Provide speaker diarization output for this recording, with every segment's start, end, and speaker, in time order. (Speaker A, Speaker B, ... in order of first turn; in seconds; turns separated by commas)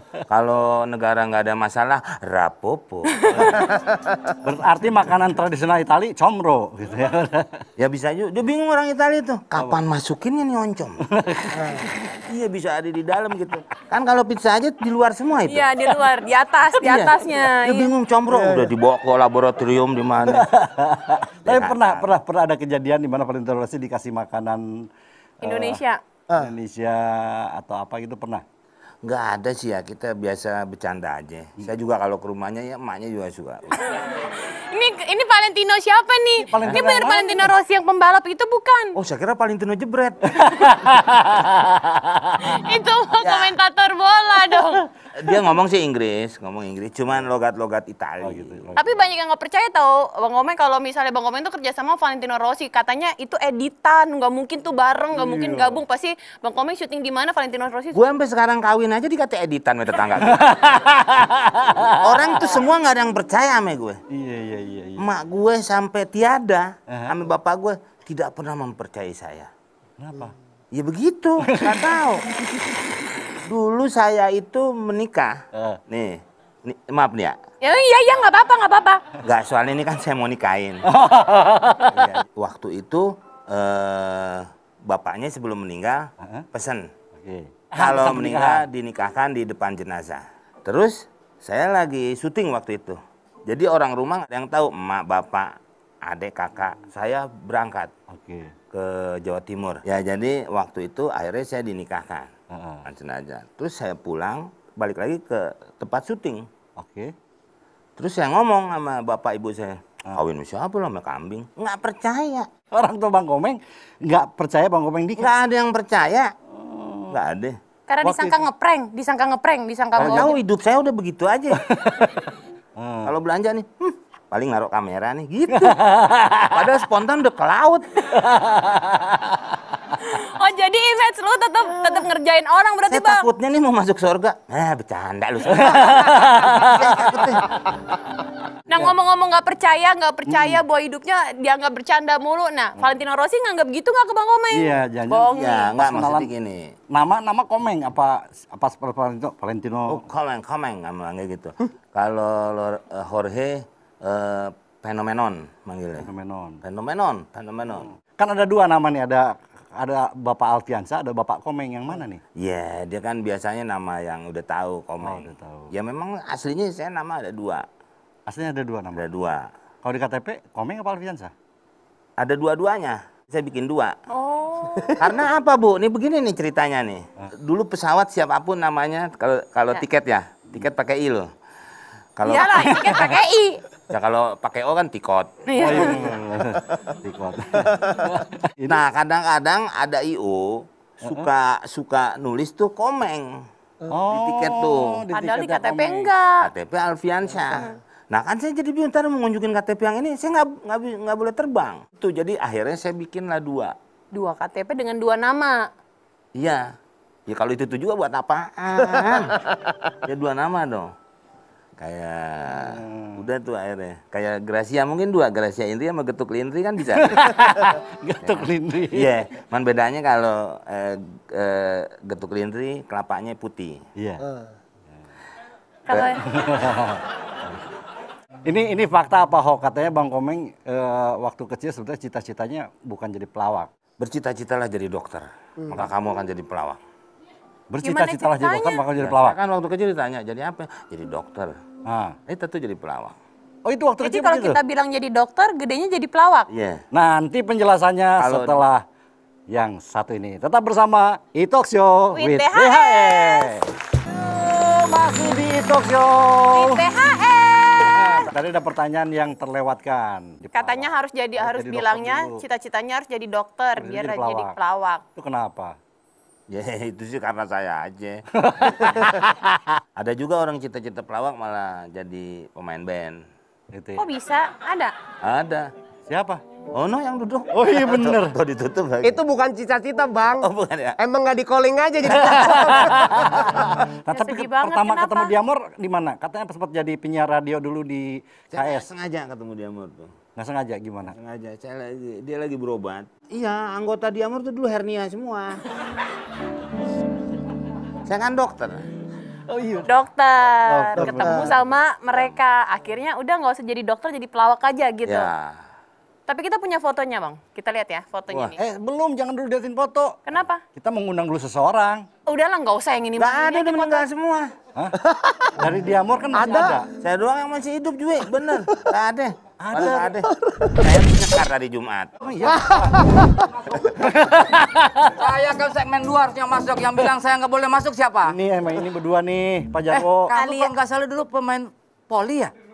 Speaker A: 0.3-3.7, Speaker B: 3.2-3.5, Speaker C: 3.7-4.2, Speaker D: 4.4-7.7, Speaker A: 7.8-11.1, Speaker D: 11.1-11.9, Speaker C: 11.6-11.8, Speaker A: 12.1-16.0, Speaker B: 15.4-17.9, Speaker A: 16.8-20.5, Speaker C: 18.3-18.7, Speaker D: 20.3-24.9, Speaker A: 21.4-22.1, Speaker D: 25.4-25.8, Speaker B: 25.4-26.0, Speaker D: 26.4-28.4, Speaker A: 29.0-34.0, Speaker B: 33.8-39.0, Speaker D: 36.4-37.5, Speaker A: 39.0-40.7, Speaker D: 40.4-42.5, Speaker B: 42.4-44.9, Speaker A: 43.2-43.5, Speaker A: 45.1-48.6, Speaker D: 48.2-48.9, Speaker B: 48.8-58.0, Speaker D: 55.1-55.8, Speaker A: 57.9-60.5, Speaker D: 60.2-62.4, Speaker A: 62.0-64.0, Speaker D: 64.1-65.1, Speaker A: 65.0-69.5, Speaker D: 70.0-70.3, Speaker A: 70.7-72.3, Speaker D: 71.5-71.8, Speaker A: 73.4-77.4, Speaker D: 75.5-75.8, Speaker B: 77.6-79.0, Speaker A: 79.2-80.9, Speaker D: 80.8-82.2, Speaker A: 81.9-86.9, Speaker D: 87.2-88.7, Speaker A: 87.8-97.9, Speaker D: 98.1-98.5, Speaker A: 98.7-102.3, Speaker D: 102.5-102.8, Speaker A: 102.9-106.5, Speaker D: 106.8-107.1, Speaker A: 108.0-112.5, Speaker D: 112.7-115.3, Speaker A: 115.2-116.3, Speaker D: 116.5-117.2, Speaker A: 117.1-117.6, Speaker B: 117.9-120.4, Speaker D: 118.0-118.5, Speaker D: 120.0-120.3, Speaker A: 120.0-121.7, Speaker D: 121.7-122.1, Speaker D: 122.8-123.1, Speaker A: 123.0-125.8, Speaker D: 125.5-126.8, Speaker A: 126.5-128.1, Speaker D: 128.2-129.4, Speaker B: 130.0-133.3, Speaker A: 132.9-137.5, Speaker D: 135.5-137.1, Speaker B: 138.7-145.8, Speaker D: 140.3-140.6, Speaker D: 144.5-146.3, Speaker A: 145.3-146.8, Speaker D: 146.9-150.1, Speaker A: 149.9-156.1, Speaker D: 156.0-156.6, Speaker A: 156.6-157.9, Speaker D: 157.9-162.2, Speaker A: 162.4-167.6, Speaker D: 165.0-165.7, Speaker D: 168.3-169.1, Speaker A: 168.9-169.5, Speaker D: 169.8-171.3, Speaker A: 172.2-174.0, Speaker B: 174.1-175.0, Speaker A: 175.0-181.3, Speaker A: 182.2-183.1, Speaker B: 182.3-183.6, Speaker A: 183.9-186.1, Speaker B: 185.5-186.1, Speaker D: 185.6-188.8, Speaker A: 188.7-193.4, Speaker D: 193.9-196.1, Speaker A: 194.1-195.0, Speaker B: 195.1-196.5, Speaker A: 196.4-203.7, Speaker B: 204.1-205.7, Speaker A: 206.3-206.7, Speaker A: 207.3-210.9, Speaker A: 211.8-217.6, Speaker D: 212.6-213.3, Speaker D: 217.0-219.1, Speaker A: 218.2-223.8, Speaker D: 224.0-224.2, Speaker C: 224.2-224.5, Speaker B: 225.9-226.2, Speaker D: 226.3-227.1, Speaker D: 228.5-233.7, Speaker A: 234.0-236.8, Speaker D: 237.7-239.4, Speaker B: 237.8-238.8, Speaker A: 239.0-241.6, Speaker D: 241.9-242.2, Speaker A: 242.3-243.2, Speaker D: 243.7-244.6, Speaker B: 244.0-246.5, Speaker A: 246.5-246.8, Speaker D: 246.9-248.8, Speaker A: 248.2-248.6, Speaker D: 249.5-256.9, Speaker B: 252.2-253.6, Speaker B: 256.5-258.3, Speaker D: 257.9-262.4, Speaker B: 260.5-265.0, Speaker D: 263.8-264.6, Speaker D: 265.2-265.8, Speaker A: 266.5-269.2, Speaker D: 268.3-269.8, Speaker A: 270.0-273.2, Speaker D: 273.7-274.1, Speaker B: 274.0-274.9, Speaker A: 275.2-275.7, Speaker D: 276.1-276.4, Speaker A: 276.7-279.2, Speaker D: 277.5-278.4, Speaker C: 279.0-283.6, Speaker A: 280.4-281.0, Speaker D: 282.2-288.9, Speaker B: 284.1-285.3, Speaker A: 288.5-290.1, Speaker D: 290.4-291.1, Speaker A: 291.1-295.7, Speaker A: 298.1-298.9, Speaker D: 299.5-299.9, Speaker B: 299.9-305.3, Speaker D: 300.7-301.6, Speaker C: 301.0-301.5, Speaker A: 305.1-305.6, Speaker B: 306.3-308.6, Speaker D: 308.6-310.2, Speaker B: 310.3-310.6, Speaker D: 310.8-312.1, Speaker B: 312.3-314.1, Speaker A: 313.2-314.5, Speaker C: 315.0-315.6, Speaker D: 315.6-316.9, Speaker C: 316.3-316.8, Speaker A: 317.0-322.1, Speaker D: 319.6-320.1, Speaker C: 320.4-320.9, Speaker D: 322.2-323.2, Speaker C: 322.5-323.7, Speaker D: 323.8-325.1, Speaker E: 325.1-328.4, Speaker D: 328.3-330.3, Speaker E: 329.9-332.5, Speaker B: 330.3-330.7